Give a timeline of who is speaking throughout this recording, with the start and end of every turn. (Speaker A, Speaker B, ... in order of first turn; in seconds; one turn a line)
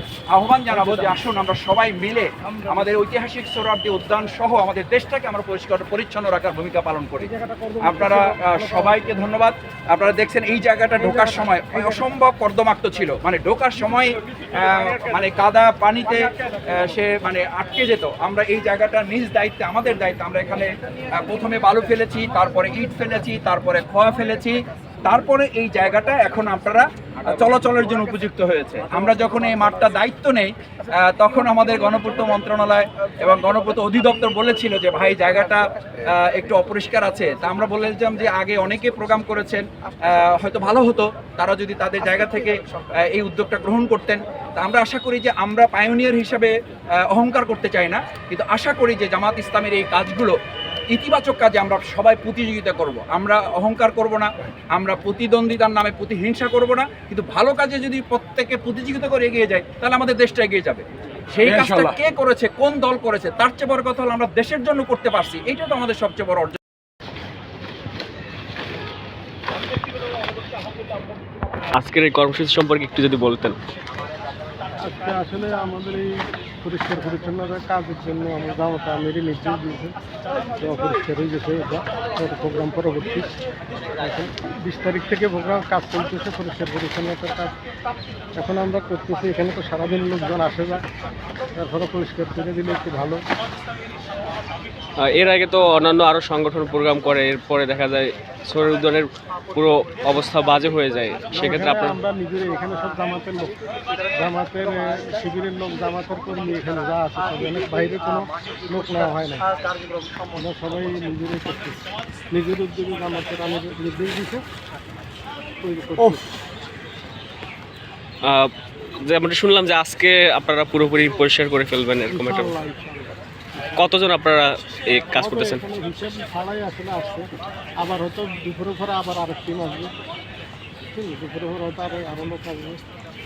Speaker A: 0.3-7.3
Speaker B: 7.2-9.0
Speaker A: 7.8-46.5
Speaker A: 47.1-50.4
Speaker A: 50.9-66.6
Speaker C: 71.8-73.6
Speaker B: 74.8-76.1
Speaker B: 76.6-80.0
Speaker B: 80.6-83.3
Speaker B: 84.0-87.5
Speaker B: 88.4-90.8
Speaker B: 91.6-93.2
Speaker C: 95.0-102.0
Speaker B: 101.3-103.6
Speaker B: 104.1-109.5
Speaker B: 110.3-114.5
Speaker B: 115.6-116.2
Speaker C: 118.2-118.5
Speaker C: 119.1-122.5
Speaker B: 122.1-123.2
Speaker C: 123.8-125.6
Speaker B: 125.1-127.3
Speaker B: 127.8-129.9
Speaker B: 130.9-132.8